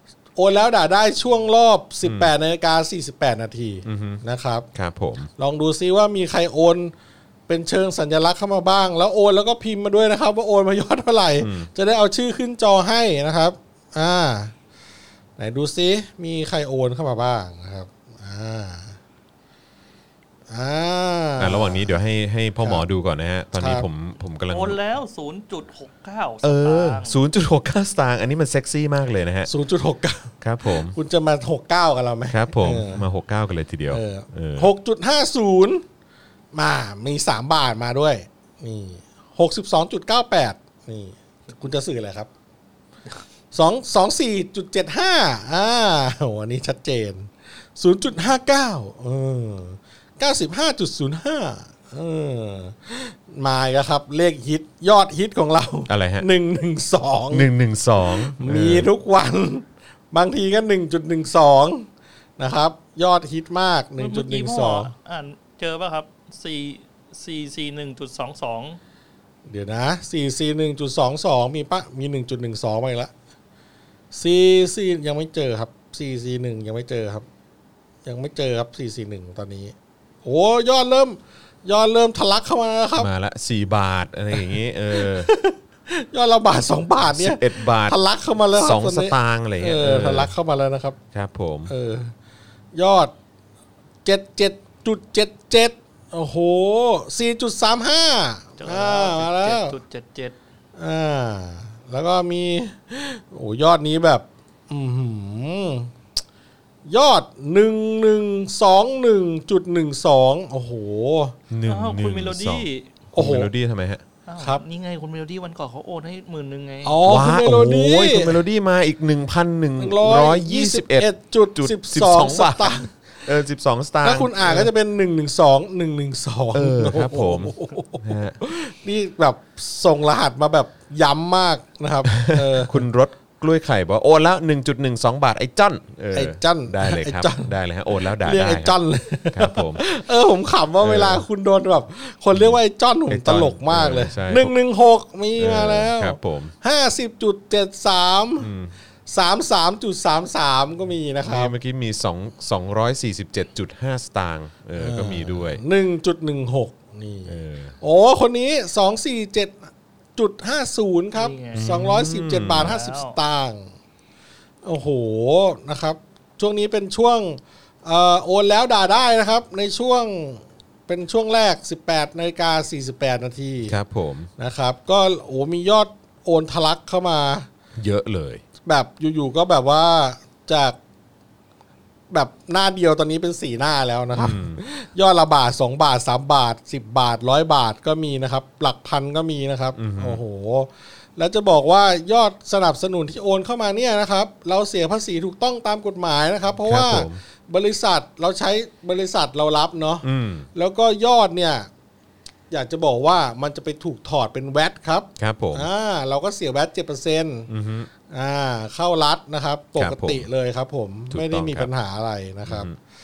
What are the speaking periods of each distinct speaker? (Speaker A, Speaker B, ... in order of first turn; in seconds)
Speaker A: 0.3-4.7, 5.4-6.9, 7.5-14.5, 15.4-19.0, 20.5-21.9, 23.6-23.9, 29.5-33.0, 33.9-35.8, 36.5-42.3, 43.5-57.5, 58.0-61.9, 62.4-64.9, 69.5-73.1, 74.1-77.2, 78.0-83.1, 84.3-91.0, 91.7-92.1, 92.7-93.1, 94.0-99.7, 100.8-105.9, 106.9-111.3, 113.1-113.5, 116.8-118.4, 119.8-122.9, 124.0-132.8, 136.1-137.5, 138.2-148.5, 149.1-151.5, 154.8-163.7, 164.6-173.7, 174.4-177.5, 178.6-180.8, 182.1-201.7, 202.5-207.5, 208.1-212.7
Speaker B: 2.0-2.3, 3.8-4.2, 4.7-5.3, 11.4-11.7, 21.4-24.8, 26.4-29.5, 30.4-30.9, 32.3-34.7, 55.9-56.3, 57.3-58.9, 83.0-85.3, 87.1-88.0, 88.5-90.3, 91.1-91.7, 111.5-114.0, 117.0-124.7, 126.5-128.4, 132.1-138.7, 139.3-139.8, 140.8-141.2, 142.3-144.5, 145.4-146.5, 148.4-148.7, 151.2-155.6, 157.3-157.7, 161.5-162.7, 173.7-174.3, 177.8-178.4, 184.1-184.6, 189.8-190.2, 196.6-197.2, 200.0-200.5, 205.2-205.7, 207.5-207.9, 209.8-210.3, 211.1-211.7, 212.4-212.8
Speaker C: 24.5-27.2, 64.0-68.8, 98.6-100.3, 111.7-112.9, 114.3-117.0, 161.1-161.8, 162.5-163.2